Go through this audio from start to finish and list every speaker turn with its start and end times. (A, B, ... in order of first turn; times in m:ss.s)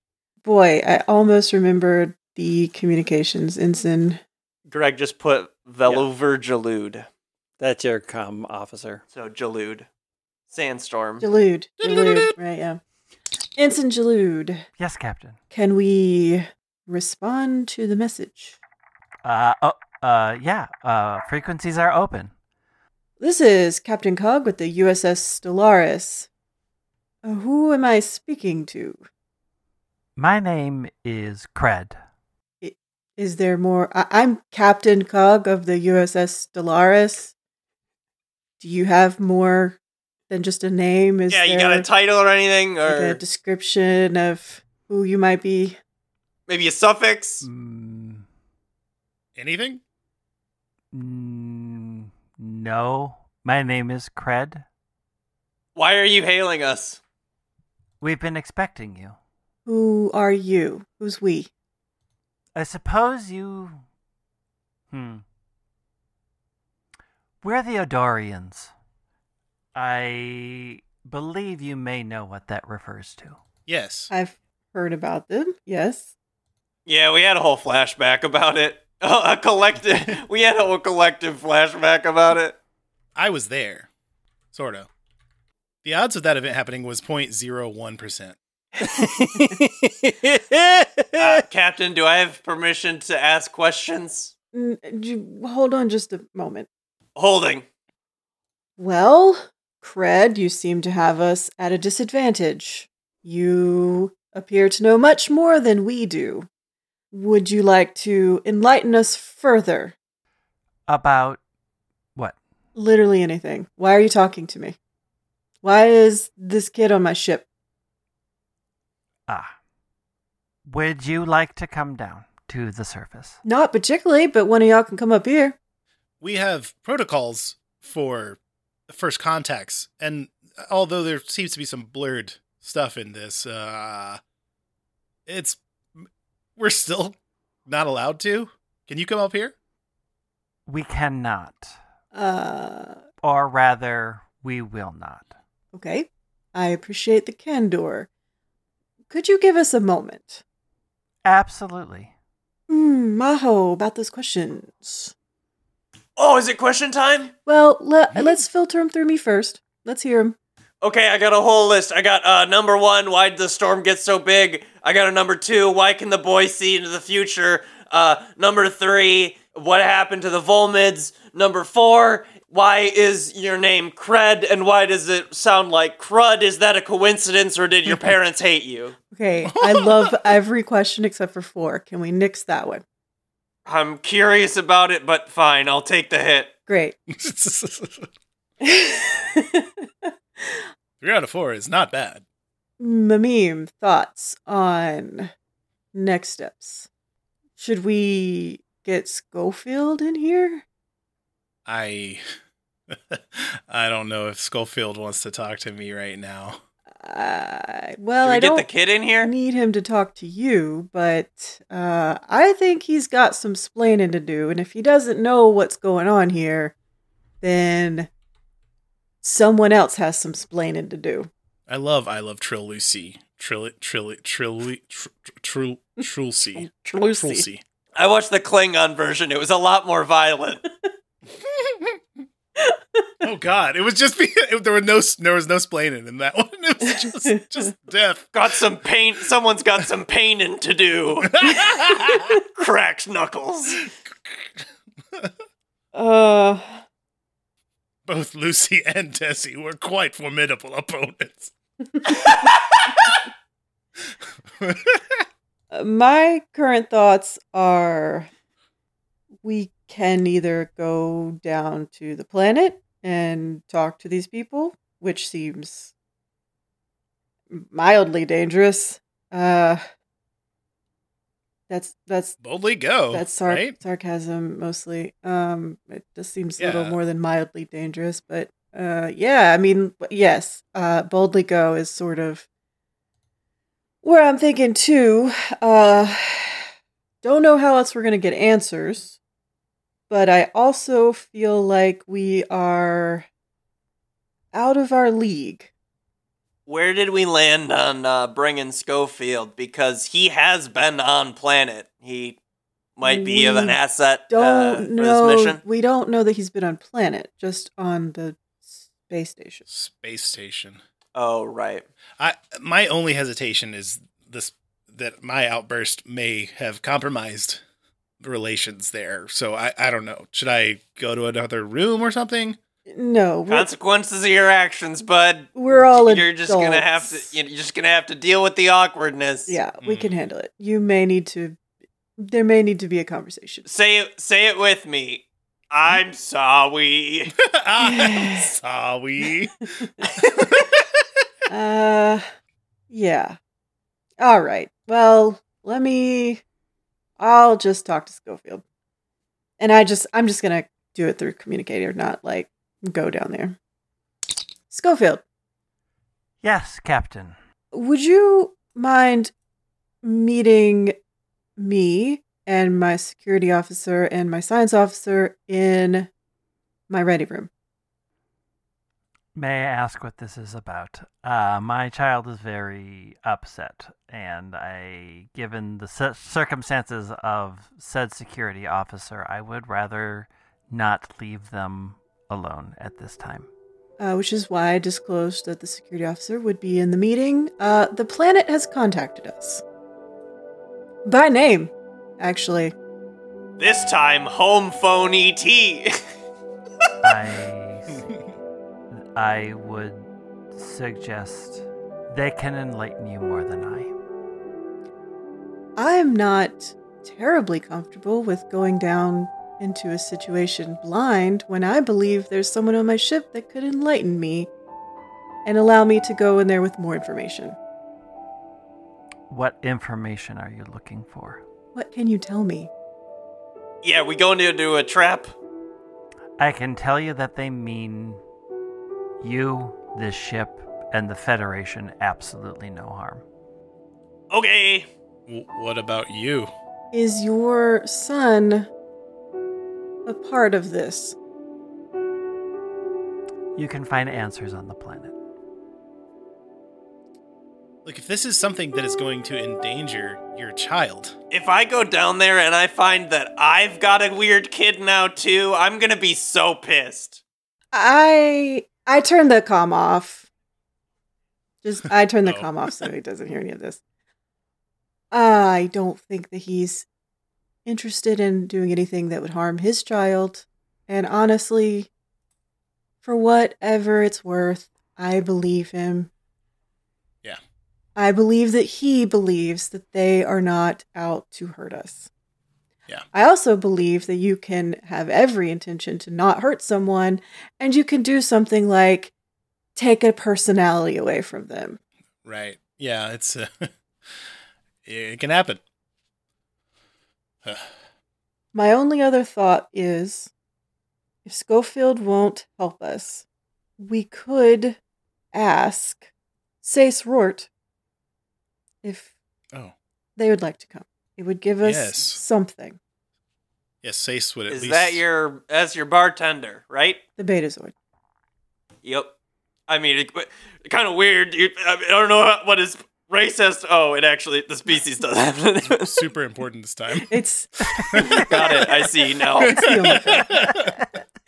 0:00.4-0:04.2 A
0:04.7-0:07.1 B
0:07.6-0:09.0 C
0:09.1-0:09.9 B
0:10.5-0:11.2 B
0:11.2-0:12.8 A
0:11.8-0:12.3 C
0:13.6-0:14.6 A
0:14.8-0:15.4 C
0:15.5-0:18.6 A
0:19.2-0:22.3 C
0:23.2-0:26.3 A
0:27.2-0:29.0 A
0:30.2-0:32.0 C
0:32.6-0:37.3 A
0:38.6-0:41.8 A
0:41.3-0:43.2 B
0:42.8-0:45.8 A
0:46.5-0:47.4 B
0:47.4-0:48.2 C
0:49.4-0:49.8 D
0:50.9-0:54.6 C
0:55.8-0:57.0 B
0:58.0-0:59.2 C
0:59.6-1:01.5 A
1:02.5-1:03.8 C
1:04.9-1:05.2 C
1:07.4-1:08.7 C
1:09.7-1:13.4 C
1:13.7-1:14.1 D
1:14.1-1:16.1 A
1:16.8-1:22.6 B
1:23.2-1:23.9 D
1:24.5-1:24.9 D
1:25.8-1:28.4 D
1:28.8-1:31.4 C
1:31.2-1:34.3 B
1:34.5-1:36.7 A
1:37.2-1:37.6 B
1:38.8-1:46.5 A
1:47.1-1:49.9 A
1:50.9-1:51.4 C
1:52.7-1:54.8 A
1:55.6-1:57.5 A
1:59.3-1:59.5 C
2:00.6-2:03.4 C
2:03.4-2:05.6 A
2:06.2-2:14.2 D
2:15.3-2:17.1 D
2:17.6-2:19.5 D
2:20.6-2:21.8 C
2:22.1-2:23.0 A
2:23.2-2:25.3 C
2:25.7-2:28.1 A
2:29.1-2:30.4 A
2:31.2-2:32.1 C
2:32.7-2:35.1 A
2:36.2-2:37.3 B
2:37.4-2:40.4 A
2:38.1-2:38.4 D
2:40.8-2:59.0 B
2:59.1-3:02.8 A
2:59.4-3:00.4 D
3:03.6-3:06.5 B
3:06.7-3:07.0 A
3:07.1-3:08.1 D
3:08.6-3:10.5 A
3:11.0-3:12.2 D
3:12.8-3:15.3 A
3:15.9-3:16.9 A
3:17.6-3:20.6 A
3:21.6-3:22.2 D
3:22.9-3:26.6 D
3:27.0-3:28.7 A
3:28.2-3:29.3 B
3:29.2-3:36.7 A
3:37.4-3:38.1 A
3:39.2-3:41.3 A
3:41.7-3:47.6 D
3:46.5-3:47.4 A
3:48.0-3:50.6 B
3:51.4-3:52.0 D
3:52.6-3:53.2 A
3:53.2-3:58.3 D
3:56.8-3:57.4 A
3:58.3-4:01.4 B
4:01.2-4:02.4 D
4:02.4-4:03.8 B
4:05.9-4:06.8 A
4:08.0-4:11.5 D
4:12.0-4:12.3 A
4:12.2-4:12.5 D
4:14.6-4:15.2 D
4:15.7-4:18.3 A
4:19.4-4:25.9 A
4:27.5-4:29.8 A
4:31.7-4:32.4 A
4:32.4-4:33.8 D
4:33.1-4:42.5 A
4:36.6-4:37.0 D
4:44.0-4:46.6 A
4:47.2-4:49.2 A
4:50.1-4:53.3 A
4:54.5-4:55.7 A
4:56.7-5:02.4 B
5:03.0-5:05.6 B
5:03.0-5:03.8 A
5:04.3-5:09.6 A
5:09.7-5:10.8 D
5:11.1-5:11.8 B
5:12.2-5:17.6 D
5:18.2-5:22.6 D
5:22.9-5:23.7 A
5:23.5-5:29.6 B
5:25.5-5:27.3 A
5:29.5-5:31.6 A
5:29.8-5:30.2 D
5:32.2-5:33.6 A
5:33.6-5:37.3 B
5:37.4-5:41.0 D
5:37.8-5:38.5 A
5:39.8-5:40.3 A
5:41.5-5:42.2 A
5:42.9-5:43.4 A
5:44.2-5:46.4 A
5:47.2-5:48.6 A
5:49.6-5:53.6 A
5:54.7-5:55.2 A
5:56.4-5:57.4 C
5:57.7-5:59.3 A
6:00.0-6:01.0 A
6:01.6-6:06.1 A
6:06.9-6:07.5 A
6:09.3-6:23.5 C
6:24.0-6:29.6 A
6:31.0-6:32.7 A
6:33.6-6:35.9 B
6:37.0-6:38.0 C
6:37.9-6:38.2 D
6:39.2-6:43.9 C
6:45.8-6:54.5 A
6:55.4-6:57.6 A
6:59.3-7:01.4 C
7:01.7-7:02.7 A
7:03.8-7:05.3 B
7:06.4-7:08.2 C
7:09.2-7:13.2 C
7:14.3-7:14.9 B
7:15.3-7:16.5 D
7:16.9-7:18.7 A
7:20.0-7:21.2 A
7:23.6-7:25.1 C
7:27.8-7:31.1 D
7:31.3-7:37.2 B
7:37.7-7:40.3 A
7:41.6-7:43.8 A
7:42.2-7:42.9 D
7:45.1-7:46.8 A
7:47.6-7:51.9 A
7:53.0-7:56.1 A
7:58.0-8:02.1 A
8:03.1-8:09.1 A
8:09.8-8:11.8 A
8:12.2-8:13.7 D
8:14.8-8:15.6 D
8:18.5-8:20.3 A
8:21.2-8:23.2 A
8:23.8-8:24.8 A
8:25.3-8:26.1 A
8:26.6-8:27.5 A
8:28.8-8:29.1 A
8:30.2-8:32.8 A
8:31.6-8:32.2 D
8:33.8-8:35.0 D
8:34.5-8:37.0 B
8:37.2-8:37.7 A
8:38.8-8:39.1 B
8:39.7-8:46.0 B
8:45.6-8:47.1 D
8:47.0-8:48.7 A
8:47.8-8:48.6 D
8:48.2-8:49.7 B
8:49.4-8:50.6 A
8:49.4-8:50.7 D